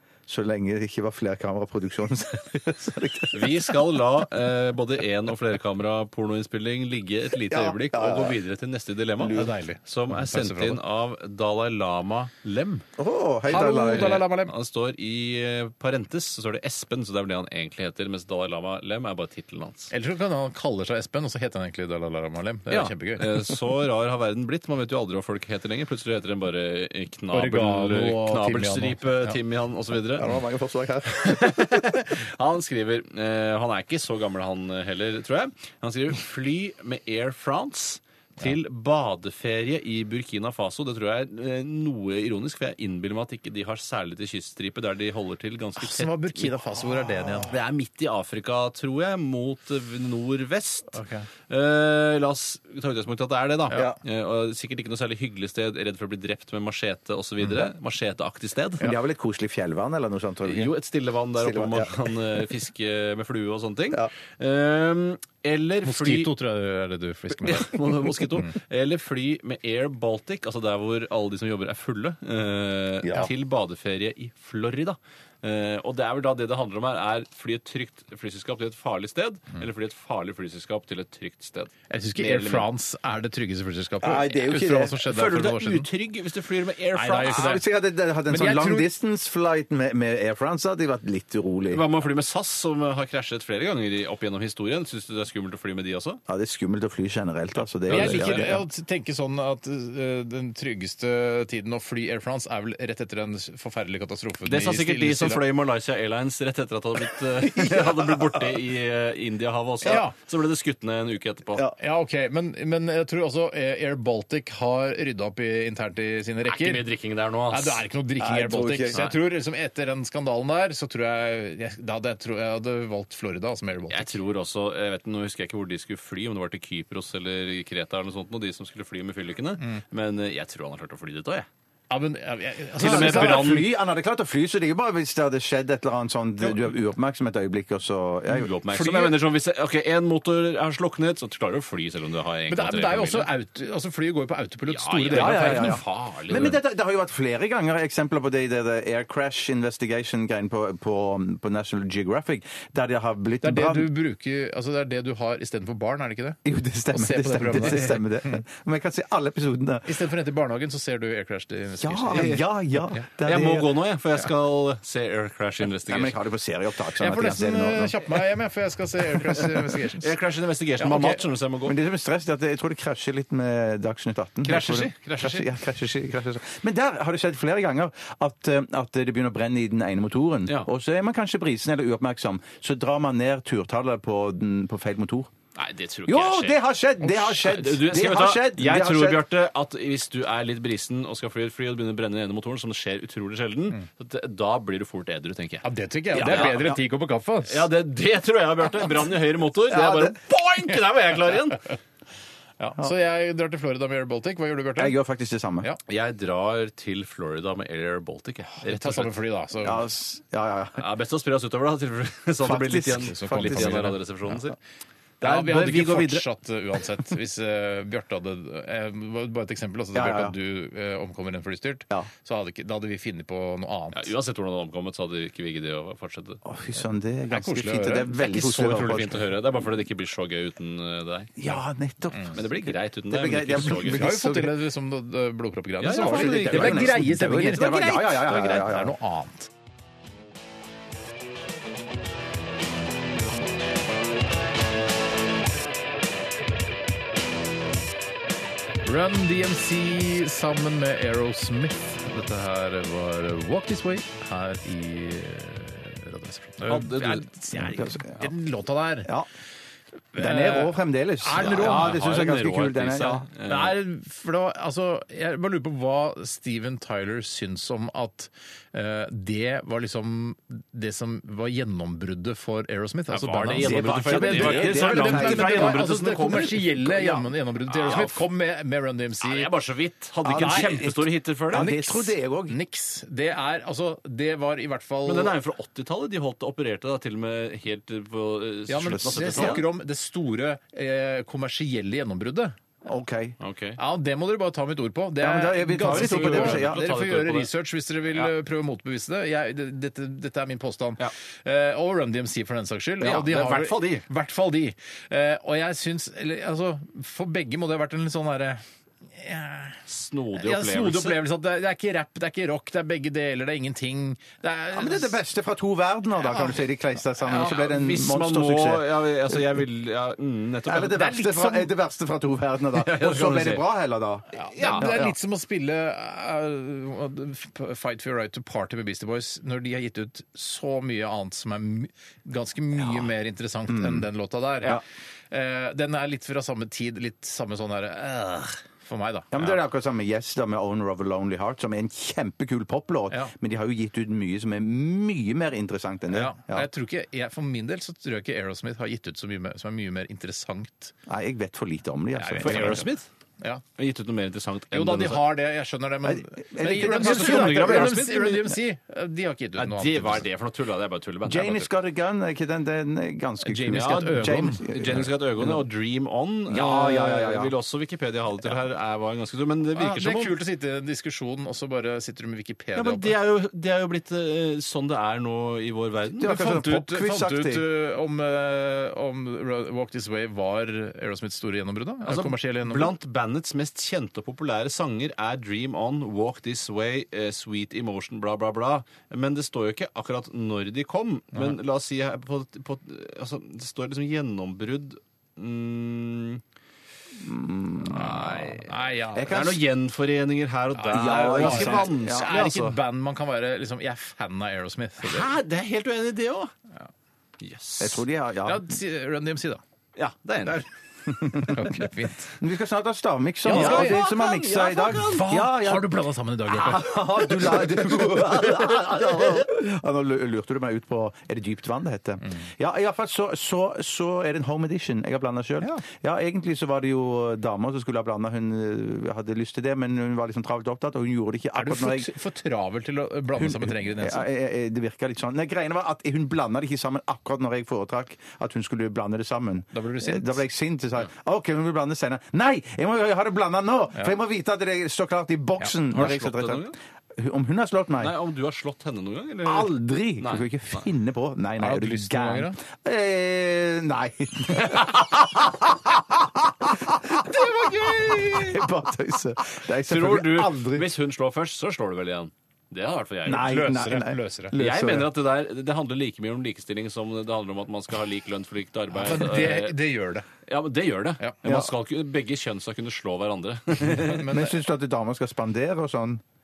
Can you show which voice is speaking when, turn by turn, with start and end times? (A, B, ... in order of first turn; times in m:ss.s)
0:00.3-0:03.7 A
0:03.3-0:12.8 B
0:07.4-0:08.4 A
0:09.2-0:09.5 A
0:09.3-0:10.8 C
0:13.0-0:14.2 A
0:13.5-0:14.5 C
0:13.5-0:19.9 B
0:19.9-0:23.5 C
0:22.7-0:30.3 B
0:27.3-0:29.4 C
0:30.2-0:31.8 A
0:31.1-0:46.5 B
0:45.8-0:47.5 C
0:47.5-0:50.9 B
0:50.9-0:51.3 C
0:51.5-0:58.9 B
0:53.7-0:54.0 A
0:58.8-1:00.8 A
1:00.4-1:06.3 B
1:01.4-1:02.1 A
1:05.8-1:08.2 C
1:07.4-1:22.7 B
1:13.0-1:13.3 A
1:21.9-1:25.9 C
1:24.0-1:25.0 A
1:25.0-1:27.5 B
1:26.9-1:27.6 C
1:27.2-1:31.8 A
1:28.3-1:28.9 C
1:31.7-1:36.2 B
1:36.3-1:38.6 A
1:37.9-1:38.6 B
1:37.9-1:45.4 C
1:44.4-1:51.6 B
1:47.4-1:48.4 A
1:49.8-1:50.1 C
1:51.8-1:56.9 C
1:56.4-1:57.8 B
1:57.5-2:04.1 C
1:58.2-1:59.0 A
2:03.9-2:11.5 B
2:11.9-2:13.7 C
2:12.8-2:13.6 B
2:12.8-2:18.5 A
2:18.3-2:23.3 B
2:18.7-2:19.2 C
2:22.5-2:25.8 C
2:24.6-2:26.6 B
2:25.1-2:33.9 A
2:33.4-2:36.4 C
2:36.4-2:39.9 A
2:36.9-2:38.4 C
2:39.8-2:43.0 C
2:41.8-2:43.7 A
2:42.1-2:42.4 B
2:43.2-2:46.1 B
2:45.9-2:48.1 A
2:47.0-2:50.1 C
2:49.6-2:51.8 B
2:50.8-2:51.2 C
2:51.6-3:05.3 A
2:54.4-2:55.5 B
3:05.5-3:15.7 B
3:06.1-3:09.2 A
3:15.6-3:17.7 C
3:16.1-3:16.8 A
3:16.2-3:16.7 B
3:17.5-3:21.7 B
3:19.7-3:20.2 A
3:22.6-3:25.0 C
3:24.8-3:25.7 A
3:25.9-3:29.2 B
3:28.6-3:29.9 C
3:29.6-3:30.8 A
3:30.8-3:34.6 B
3:32.4-3:33.9 A
3:32.9-3:34.4 C
3:35.2-3:36.2 B
3:35.2-3:44.1 C
3:39.9-3:40.3 A
3:43.9-3:46.4 B
3:46.4-3:49.2 A
3:47.3-3:48.2 C
3:48.2-3:51.4 B
3:51.4-3:54.6 A
3:52.3-3:54.0 B
3:53.6-3:59.5 C
3:55.8-3:57.1 B
3:55.9-3:59.0 A
4:08.8-4:19.1 C
4:16.6-4:17.3 B
4:17.6-4:18.3 A
4:20.1-4:22.1 C
4:20.2-4:23.2 A
4:21.4-4:23.8 B
4:23.4-4:39.5 C
4:33.1-4:38.2 B
4:33.5-4:35.8 A
4:39.2-4:41.7 B
4:40.2-4:42.6 A
4:40.3-4:45.4 C
4:45.0-4:49.6 B
4:48.7-4:52.6 C
4:48.8-4:49.6 A
4:52.8-4:53.4 A
4:53.4-4:53.8 B
4:53.8-5:08.6 C
4:55.2-4:56.8 A
4:55.8-4:57.5 B
5:03.0-5:04.1 B
5:09.1-5:09.8 C
5:09.8-5:11.2 B
5:10.3-5:15.1 C
5:14.7-5:18.9 A
5:16.2-5:16.6 C
5:17.3-5:21.1 B
5:20.6-5:25.1 A
5:20.9-5:21.7 C
5:22.7-5:23.7 B
5:24.3-5:24.9 B
5:24.4-5:39.6 C
5:33.7-5:34.0 A
5:39.3-5:46.6 A
5:46.1-5:50.9 C
5:51.1-5:52.8 A
5:52.2-5:53.6 C
5:52.4-5:53.1 B
5:53.8-5:55.2 B
5:54.7-6:00.2 C
5:56.0-5:58.0 A
5:56.8-5:58.6 B
5:59.6-6:01.7 B
6:01.2-6:05.6 A
6:03.4-6:04.7 C
6:03.7-6:10.3 B
6:06.5-6:07.5 A
6:09.7-6:13.1 C
6:12.7-6:16.4 B
6:16.2-6:17.6 A
6:16.2-6:22.9 C
6:22.0-6:36.4 B
6:37.1-6:38.5 A
6:37.9-6:39.4 C
6:38.0-6:42.6 B
6:39.1-6:39.6 A
6:40.8-6:45.3 C
6:40.9-6:42.8 A
6:45.0-6:46.5 B
6:47.4-6:48.0 B
6:47.8-6:48.6 A
6:48.4-6:49.6 C
6:50.0-6:50.6 B
6:51.1-6:51.9 A
6:51.2-6:52.3 C
6:52.4-6:55.9 A
6:53.4-6:54.0 C
6:53.5-6:55.3 B
6:54.9-6:58.1 C
6:56.5-7:12.1 A
6:58.8-6:59.4 B
7:11.6-7:14.2 C
7:13.4-7:28.1 A
7:19.7-7:20.4 C
7:25.9-7:26.7 B
7:28.0-7:30.8 B
7:29.4-7:40.9 A
7:31.6-7:32.6 C
7:34.6-7:35.2 B
7:37.1-7:38.7 B
7:39.8-7:43.5 B
7:43.2-7:45.1 A
7:43.3-7:44.5 C
7:44.6-7:49.8 B
7:49.0-7:50.3 C
7:50.4-7:54.2 B
7:51.4-7:51.7 A
7:53.9-7:54.5 C
7:54.1-7:56.2 A